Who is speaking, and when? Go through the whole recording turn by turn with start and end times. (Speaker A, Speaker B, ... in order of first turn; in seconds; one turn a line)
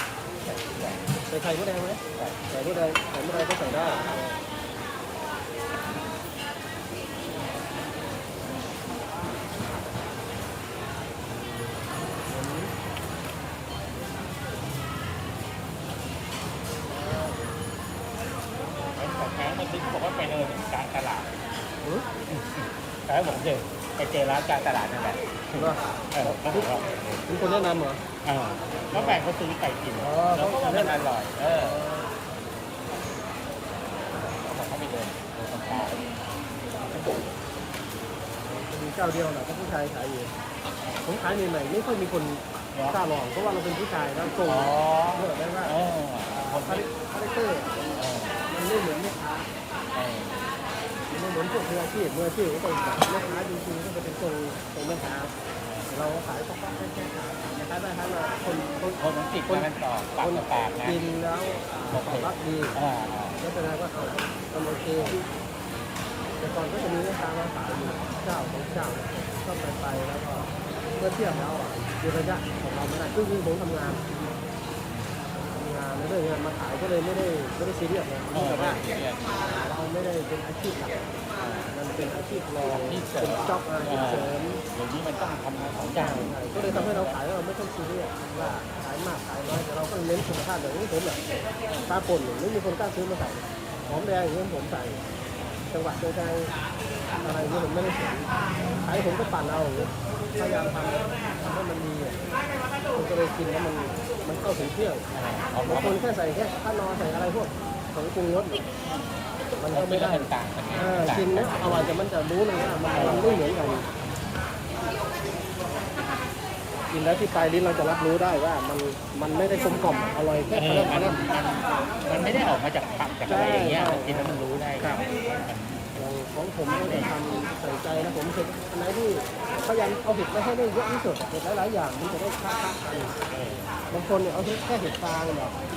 Speaker A: 0.4-1.2
Speaker B: 1.3-4.3
Speaker A: 2.1-2.4
Speaker B: 11.3-12.7
Speaker B: 16.9-17.5
Speaker A: 18.9-21.3
Speaker A: 22.3-27.2
Speaker B: 25.6-26.7
Speaker B: 27.3-28.0
Speaker A: 28.2-31.8
Speaker B: 28.9-29.2
Speaker B: 30.0-32.1
Speaker A: 34.1-36.0
Speaker B: 36.8-37.2
Speaker B: 38.4-40.3
Speaker B: 41.0-45.7
Speaker A: 44.5-46.8
Speaker B: 46.3-49.4
Speaker A: 48.0-48.4
Speaker A: 49.9-50.4
Speaker B: 51.1-55.3
Speaker A: 55.6-55.9
Speaker B: 55.9-59.7
Speaker A: 59.0-61.0
Speaker B: 60.2-62.8
Speaker A: 61.9-63.4
Speaker B: 63.4-65.2
Speaker B: 66.4-74.0
Speaker A: 74.9-75.1
Speaker B: 75.3-84.6
Speaker A: 78.3-79.3
Speaker A: 81.4-81.7
Speaker A: 82.7-87.2
Speaker B: 85.9-91.2
Speaker B: 91.8-95.0
Speaker B: 95.7-96.5
Speaker B: 97.2-102.2
Speaker B: 102.9-105.0
Speaker A: 105.1-106.0
Speaker B: 105.6-108.6
Speaker B: 109.6-113.8
Speaker A: 109.7-111.9
Speaker A: 112.9-113.4
Speaker B: 116.9-121.2
Speaker A: 120.5-126.0
Speaker B: 123.2-125.0
Speaker B: 125.9-133.1
Speaker A: 126.8-127.1
Speaker A: 133.3-133.7
Speaker B: 133.9-135.6